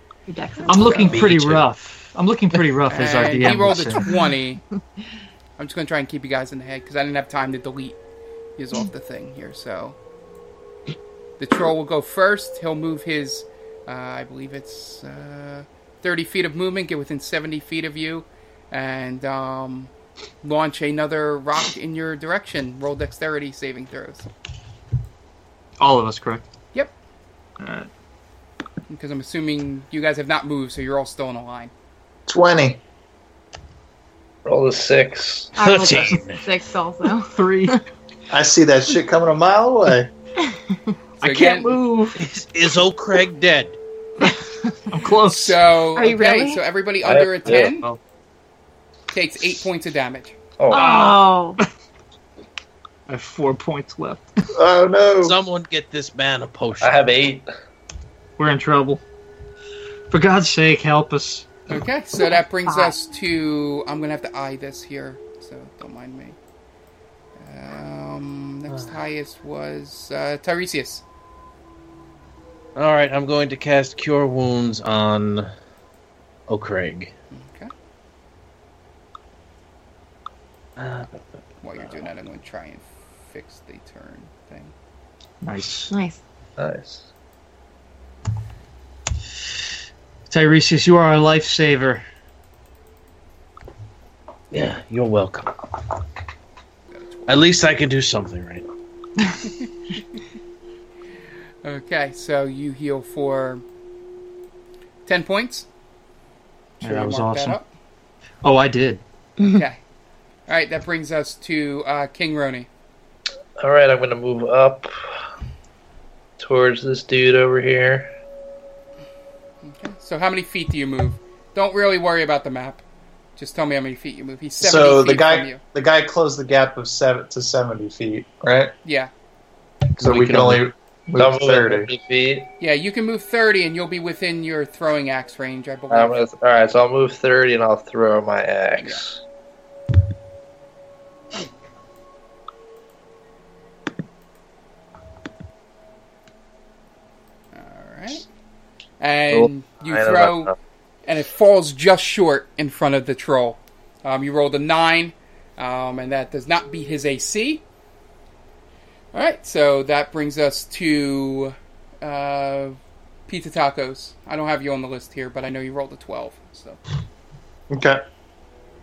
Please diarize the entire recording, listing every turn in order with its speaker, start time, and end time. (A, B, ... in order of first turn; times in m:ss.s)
0:00.3-0:01.2 A
0:00.7-0:04.1 B
0:00.8-0:01.7 C
0:02.9-0:04.6 D
0:05.6-0:08.0 D
0:08.6-0:10.0 D
0:11.4-0:19.9 D
0:20.4-0:24.3 D
0:25.8-0:26.4 B
0:27.6-0:27.9 B
0:28.9-0:31.7 D
0:32.3-0:32.8 E
0:34.4-0:35.6 F
0:35.6-0:36.4 C
0:35.6-0:37.7 A
0:37.3-0:37.8 B
0:38.3-0:40.1 E
0:40.4-0:40.9 A
0:41.2-0:41.8 D
0:41.2-0:42.3 B
0:42.2-0:43.8 C
0:44.9-0:45.6 B
0:45.3-0:47.9 D
0:46.0-0:46.6 A
0:47.0-0:47.7 F
0:47.5-0:48.0 B
0:49.1-0:50.4 D
0:50.6-0:51.1 F
0:50.7-0:51.6 A
0:50.7-0:51.6 B
0:53.1-0:54.2 B
0:54.5-0:55.4 E
0:55.2-0:57.1 C
0:56.8-0:57.5 F
0:58.4-0:59.0 B
1:00.1-1:01.5 B
1:01.7-1:06.4 D
1:02.2-1:02.9 A
1:07.4-1:11.0 D
1:12.8-1:15.5 C
1:16.5-1:17.1 C
1:17.3-1:17.7 D
1:20.8-1:22.0 C
1:21.6-1:24.7 D
1:25.4-1:25.9 B
1:25.9-1:26.2 A
1:26.6-1:27.1 F
1:30.3-1:32.0 B
1:34.5-1:35.6 C
1:37.3-1:38.7 C
1:41.6-1:43.6 D
1:45.0-1:45.7 D
1:46.8-1:47.6 D
1:46.8-1:47.6 B
1:48.4-1:49.0 B
1:49.4-1:49.8 D
1:50.5-1:52.7 D
1:53.6-1:54.9 F
1:56.4-1:58.1 F
1:59.6-2:02.8 D
2:03.4-2:05.6 D
2:04.6-2:08.7 E
2:08.8-2:09.1 D
2:10.0-2:11.9 E
2:10.1-2:10.6 F
2:11.2-2:12.5 F
2:12.6-2:16.2 D
2:15.9-2:19.2 F
2:27.5-2:28.2 D
2:29.0-2:30.5 D
2:29.3-2:30.5 F
2:31.0-2:37.6 D
2:39.1-2:46.8 D
2:47.7-2:48.0 E